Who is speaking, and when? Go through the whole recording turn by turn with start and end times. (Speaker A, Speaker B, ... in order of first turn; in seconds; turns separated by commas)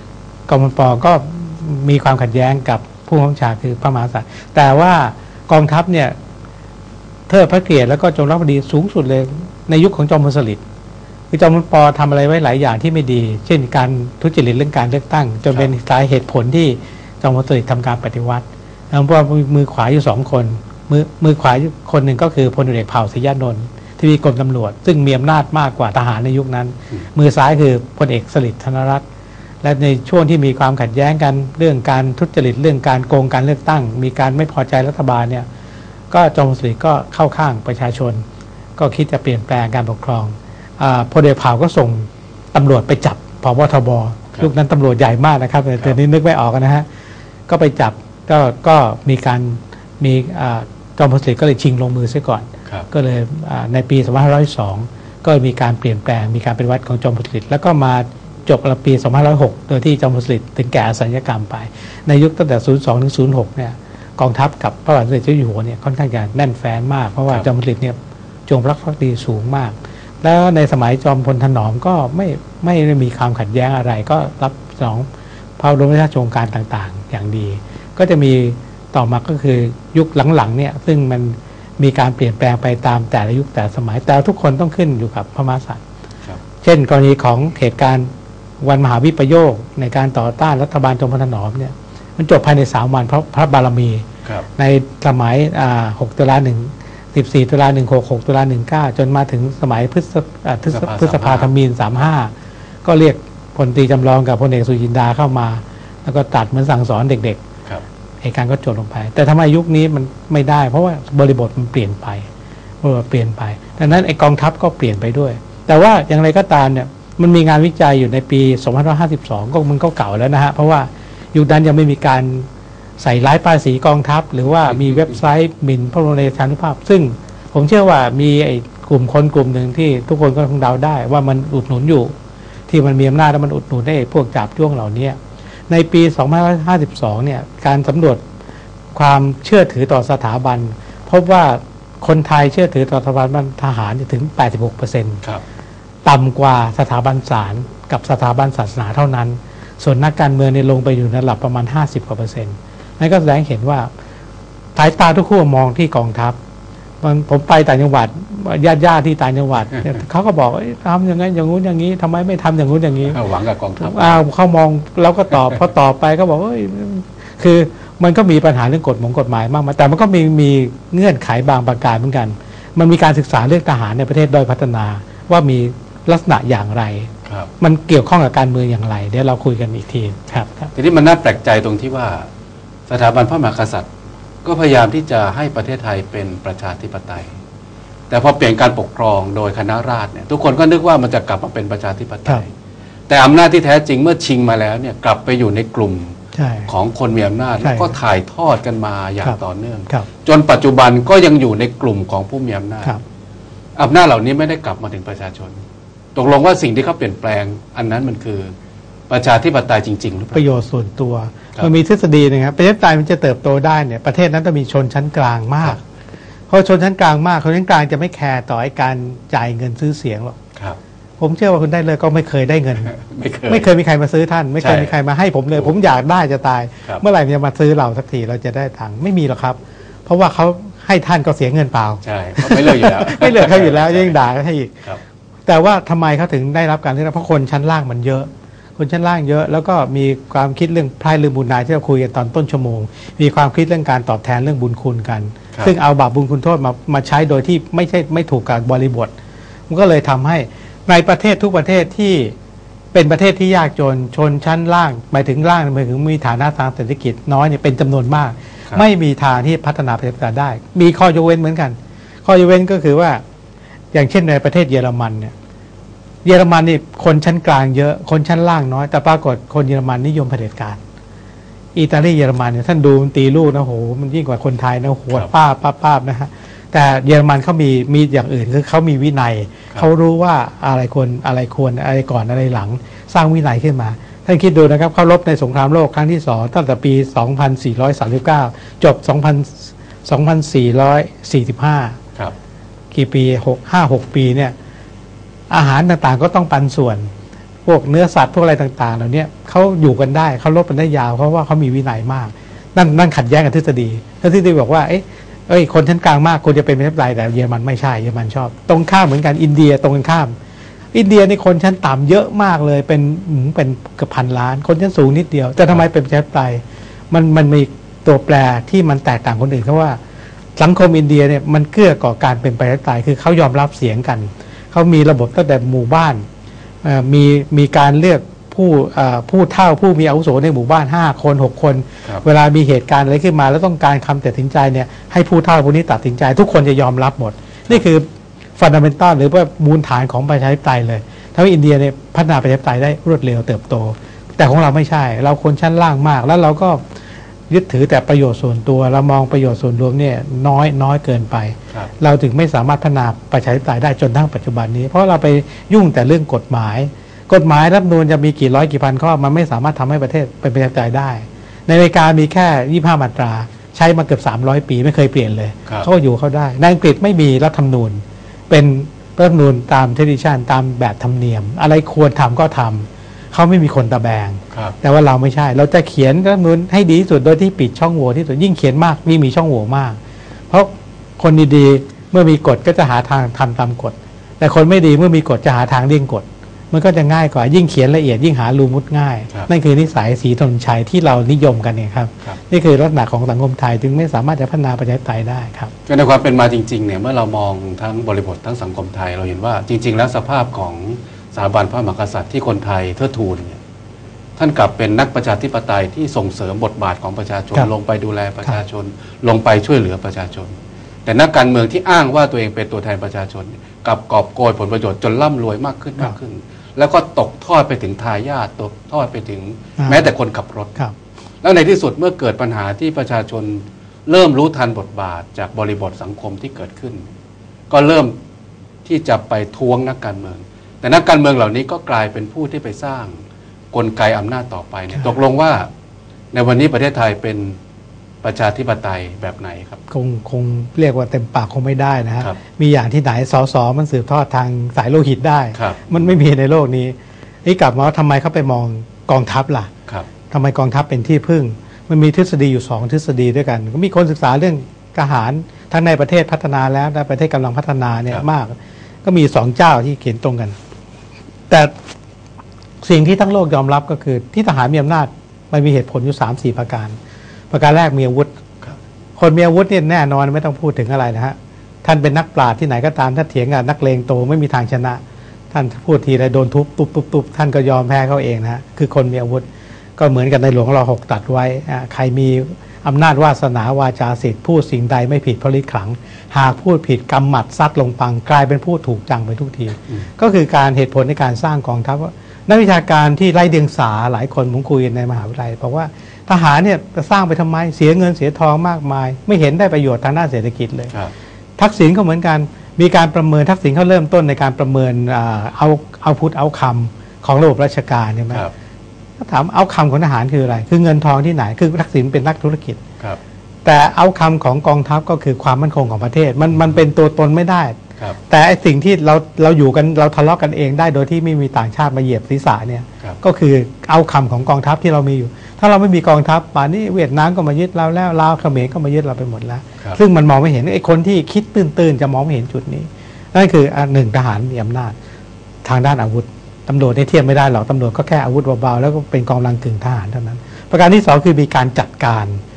Speaker A: 0.5-6.1, Speaker A: 7.3-10.6, Speaker A: 11.3-29.0, Speaker A: 29.6-35.5, Speaker A: 36.1-38.2, Speaker A: 38.8-46.9, Speaker A: 47.5-75.1, Speaker A: 75.6-85.8, Speaker A: 86.6-88.1, Speaker A: 88.6-102.3, Speaker B: 100.7-101.5, Speaker A: 102.8-107.4, Speaker A: 108.2-112.3, Speaker A: 112.8-122.5, Speaker A: 123.0-132.1, Speaker A: 132.7-135.2, Speaker A: 135.7-138.2, Speaker A: 138.9-145.2, Speaker A: 146.0-153.9, Speaker A: 154.7-156.4, Speaker A: 157.0-163.2, Speaker B: 163.1-164.2, Speaker A: 163.8-180.7, Speaker B: 180.7-182.3, Speaker B: 182.9-183.9, Speaker B: 184.4-187.4, Speaker B: 188.1-192.5, Speaker B: 193.1-202.9, Speaker A: 196.3-196.7, Speaker A: 197.6-197.9, Speaker B: 203.8-205.6, Speaker B: 206.1-208.5, Speaker B: 209.1-210.5, Speaker A: 210.3-215.8, Speaker A: 216.5-220.4, Speaker A: 221.2-222.9, Speaker B: 222.9-223.7, Speaker A: 223.5-234.7, Speaker B: 224.6-224.9, Speaker B: 232.0-234.2, Speaker A: 235.5-249.1, Speaker A: 249.7-252.3, Speaker A: 252.9-263.2, Speaker A: 263.9-265.3, Speaker A: 266.2-270.8, Speaker A: 271.7-292.0, Speaker A: 292.9-294.5, Speaker A: 295.5-297.1, Speaker A: 297.6-310.3, Speaker A: 310.9-320.0, Speaker A: 320.6-326.2, Speaker A: 326.8-338.1, Speaker A: 338.6-346.8, Speaker A: 347.5-380.0, Speaker B: 374.5-374.8, Speaker A: 380.5-395.7, Speaker B: 395.9-403.6, Speaker B: 404.4-410.5, Speaker B: 411.1-420.7, Speaker A: 419.8-420.1, Speaker B: 421.4-427.0, Speaker B: 427.7-428.1, Speaker B: 428.8-433.1, Speaker B: 433.7-435.7, Speaker B: 436.3-437.6, Speaker B: 438.2-439.8, Speaker A: 439.9-449.7, Speaker B: 445.5-446.2, Speaker A: 450.3-460.5, Speaker A: 462.8-466.9, Speaker A: 467.5-468.3, Speaker A: 469.2-475.0, Speaker A: 475.5-479.4, Speaker A: 480.0-500.9, Speaker A: 501.6-508.4, Speaker A: 509.2-512.8, Speaker A: 513.6-517.8, Speaker A: 518.3-534.9, Speaker A: 535.6-542.4